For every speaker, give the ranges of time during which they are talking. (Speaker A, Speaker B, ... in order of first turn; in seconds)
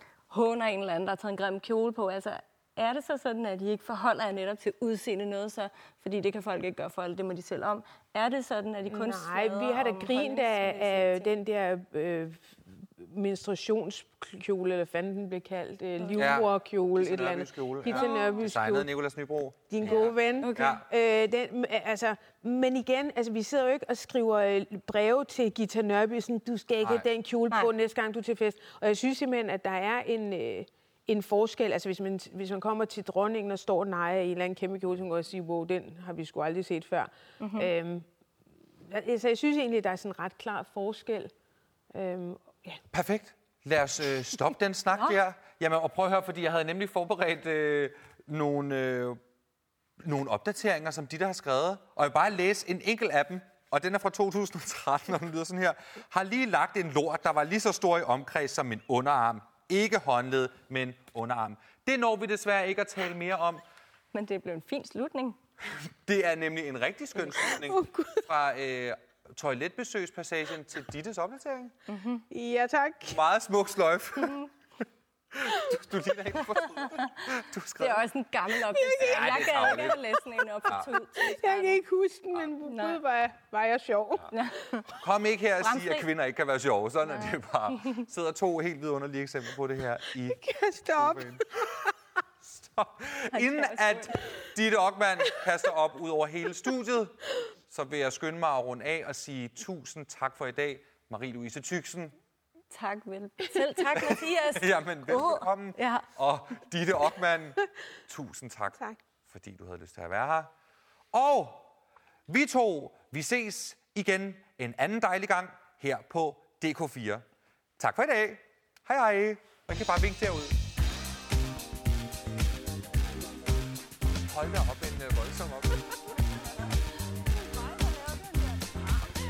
Speaker A: 0.3-11.3, 16.0-16.3, 17.9-18.5, 19.9-20.8, 37.4-37.7, 64.1-65.4, 71.9-72.2, 76.5-81.8, 82.6-83.0, 84.3-84.9, 85.6-86.1, 93.3-94.1, 102.7-106.1
Speaker B: 8.9-18.9, 19.7-38.1, 38.9-41.3, 41.9-42.8, 67.5-68.2, 72.3-73.2, 78.7-80.2, 81.2-84.3, 90.2-91.7
Speaker C: 16.2-20.8, 26.8-27.1, 42.9-49.2, 50.0-63.6, 66.0-71.7, 73.1-74.4, 75.3-78.0, 79.0-80.0, 84.9-91.9, 92.4-102.2, 103.9-110.5, 111.1-111.7, 112.3-117.2, 117.8-120.6, 124.2-126.0